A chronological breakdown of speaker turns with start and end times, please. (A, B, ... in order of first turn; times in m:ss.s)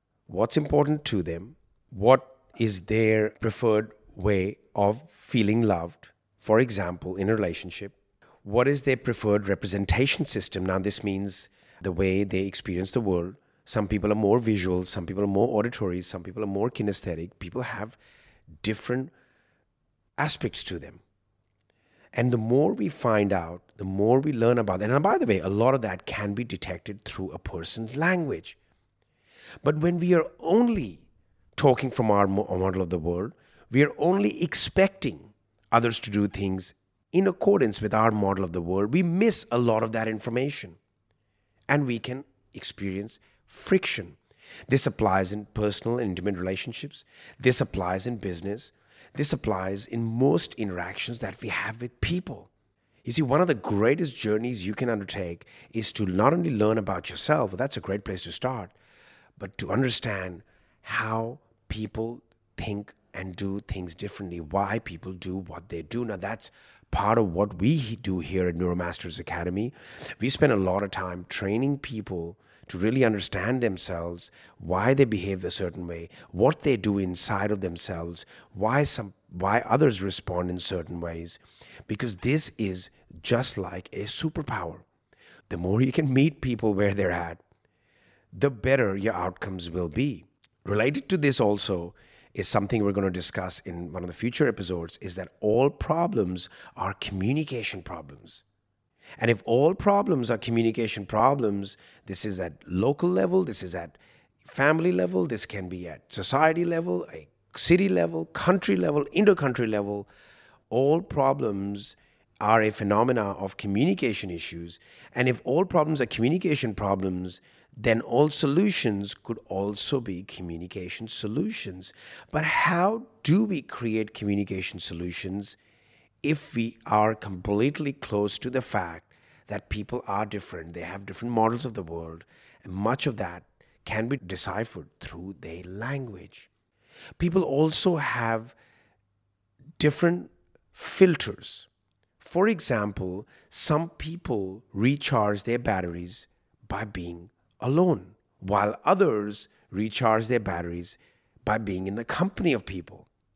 0:00.3-0:18.0 A
0:18.6-0:19.1 A
0:20.2-0:21.0 A
0:22.1-0:28.6 A
0:29.6-0:40.8 A
0:41.7-0:52.5 A
0:53.0-0:58.7 A
0:59.4-1:24.8 A
1:25.5-1:27.4 A
1:28.3-1:38.4 A
1:39.2-1:50.1 A
1:50.7-2:05.6 A
2:06.2-2:16.5 A
2:17.2-2:18.6 A
2:19.8-2:21.7 A
2:22.2-2:33.1 A